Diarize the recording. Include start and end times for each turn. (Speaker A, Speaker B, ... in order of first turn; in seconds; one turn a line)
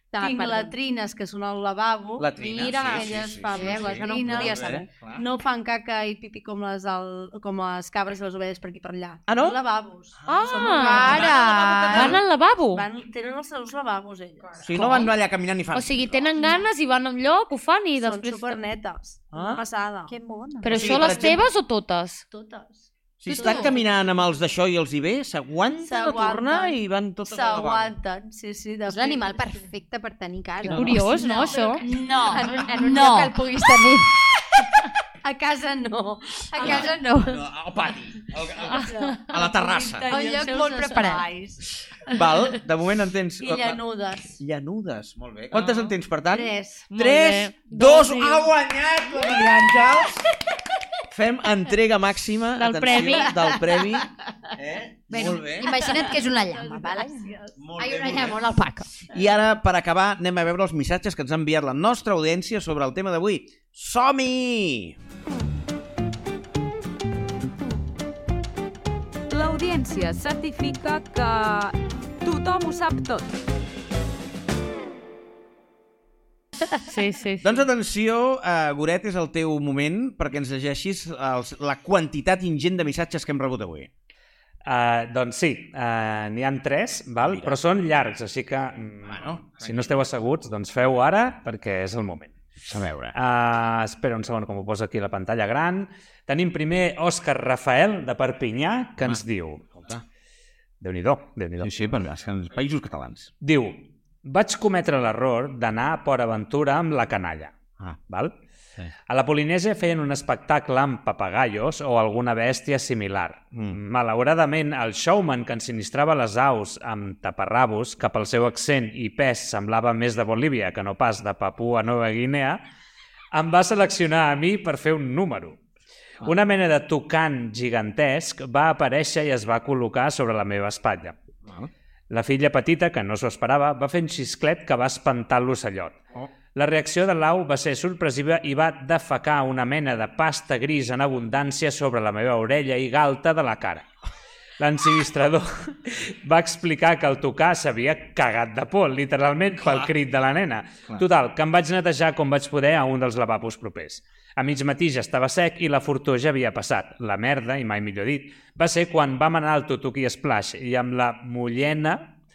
Speaker A: 0.1-0.7
Speaker B: 0.1-11.3
Speaker C: 2.2-5.2
Speaker A: 2.4-4.9
Speaker C: 9.3-9.6
Speaker C: 10.2-12.2
Speaker D: 10.3-11.3
Speaker A: 10.6-12.1
Speaker D: 11.9-12.8
Speaker B: 12.7-15.0
Speaker C: 14.6-16.3
Speaker D: 14.7-15.1
Speaker D: 15.7-18.6
Speaker B: 16.4-16.6
Speaker B: 18.0-21.4
Speaker C: 19.3-19.6
Speaker D: 20.6-22.2
Speaker C: 20.7-21.4
Speaker B: 22.3-23.9
Speaker C: 23.2-27.9
Speaker A: 23.3-23.8
Speaker B: 25.8-29.6
Speaker A: 28.9-34.1
Speaker C: 30.6-31.1
Speaker D: 30.7-31.9
Speaker B: 30.9-33.5
Speaker B: 35.2-37.0
Speaker A: 36.5-37.4
Speaker C: 36.6-40.1
Speaker D: 38.7-39.2
Speaker B: 38.8-42.3
Speaker A: 40.1-41.3
Speaker C: 41.9-43.8
Speaker B: 43.4-44.4
Speaker C: 44.4-50.3
Speaker D: 45.5-45.9
Speaker B: 46.3-46.9
Speaker D: 46.9-48.5
Speaker B: 49.2-49.5
Speaker C: 51.1-55.7
Speaker D: 52.6-53.5
Speaker A: 55.1-58.9
Speaker B: 55.5-57.6
Speaker C: 57.6-65.0
Speaker E: 69.3-73.2
Speaker D: 76.8-77.7
Speaker C: 77.4-83.9
Speaker F: 84.7-92.3
Speaker C: 87.2-87.6
Speaker C: 89.0-90.1
Speaker C: 92.6-93.2
Speaker F: 93.1-99.7
Speaker C: 99.0-100.0
Speaker F: 100.8-101.8
Speaker C: 101.6-103.3
Speaker F: 103.4-107.6
Speaker F: 108.1-108.3
Speaker F: 109.1-122.6
Speaker C: 113.5-113.8
Speaker F: 123.3-125.6
Speaker F: 126.2-131.2
Speaker F: 132.1-136.0
Speaker F: 136.6-143.9
Speaker F: 144.6-162.1
Speaker C: 149.6-149.9